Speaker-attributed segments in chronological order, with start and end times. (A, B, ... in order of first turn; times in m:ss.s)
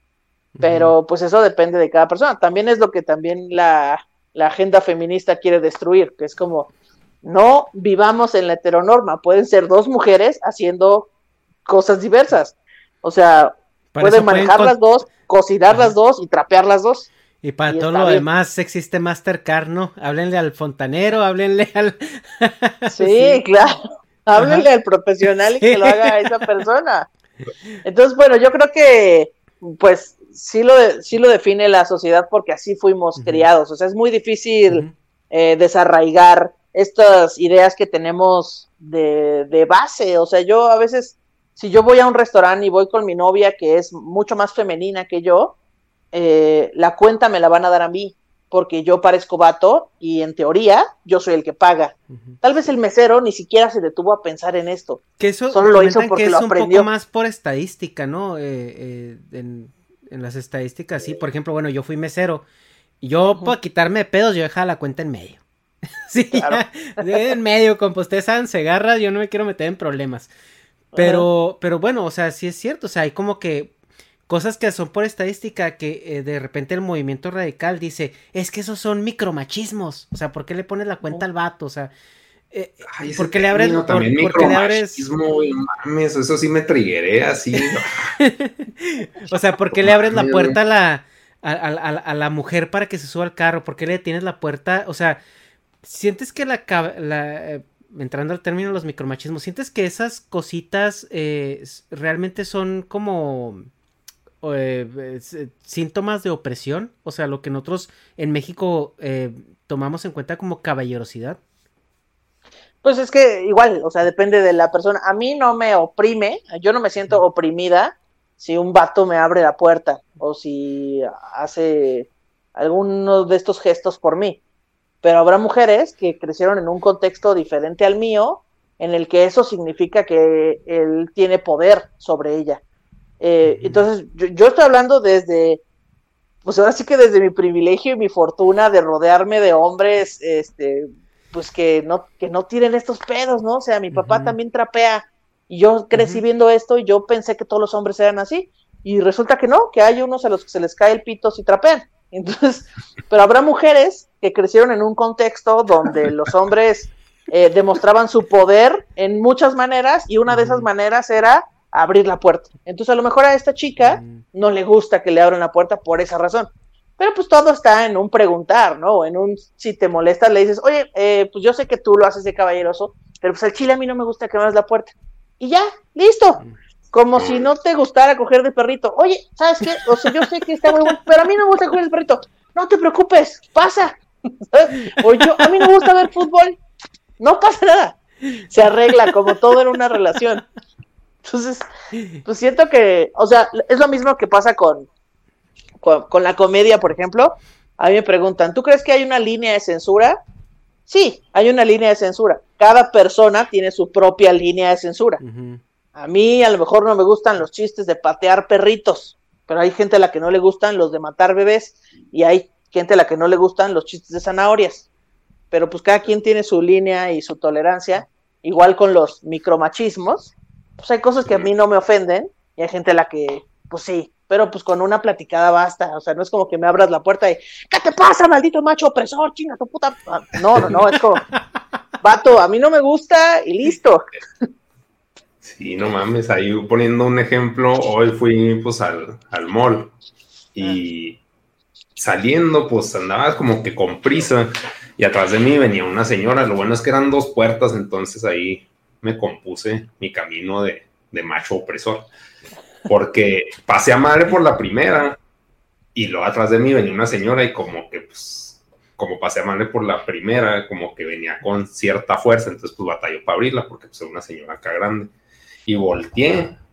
0:00.6-0:01.0 A
0:00.6-0:06.7 B
0:07.2-0:11.1 B
0:11.7-0:17.1 B
0:14.0-0:14.8 A
0:17.4-0:23.4 A
0:17.7-0:18.2 B
0:23.0-0:27.1 B
0:24.4-0:24.7 A
0:25.6-0:26.4 A
0:27.8-0:45.6 B
0:33.2-0:33.5 A
0:46.1-0:56.9 B
0:52.1-0:52.4 A
0:55.2-1:02.4 A
1:03.0-1:05.4 A
1:06.1-1:10.3 A
1:06.3-1:07.2 B
1:10.9-1:11.3 B
1:11.0-1:13.7 A
1:14.3-1:21.9 A
1:22.5-1:25.0 A
1:22.9-1:28.2 C
1:28.2-1:35.2 A
1:29.8-1:30.6 C
1:35.8-1:43.7 A
1:44.4-1:51.4 A
1:52.8-2:04.4 B
2:05.0-2:12.6 B
2:13.2-2:15.6 B
2:16.4-2:56.4 B
2:23.9-2:24.4 A
2:25.9-2:26.2 A
2:40.3-2:40.7 A
2:43.8-2:44.2 A
2:56.9-3:04.0 B
2:57.2-2:57.5 C
2:59.6-3:01.0 A
3:04.5-3:06.6 B
3:04.8-3:05.7 A
3:07.2-3:08.0 B
3:08.5-3:10.4 B
3:09.0-3:09.3 A
3:11.2-3:11.7 B
3:12.2-3:14.9 B
3:15.8-3:20.2 B
3:20.9-3:25.2 B
3:25.2-3:25.6 A
3:26.0-3:34.9 B
3:35.5-3:51.2 B
3:41.2-3:41.5 C
3:52.0-3:54.0 B
3:55.4-3:59.9 C
4:00.6-4:01.2 C
4:02.0-4:12.1 C
4:12.9-4:15.2 C
4:16.0-4:25.1 C
4:25.7-4:26.6 C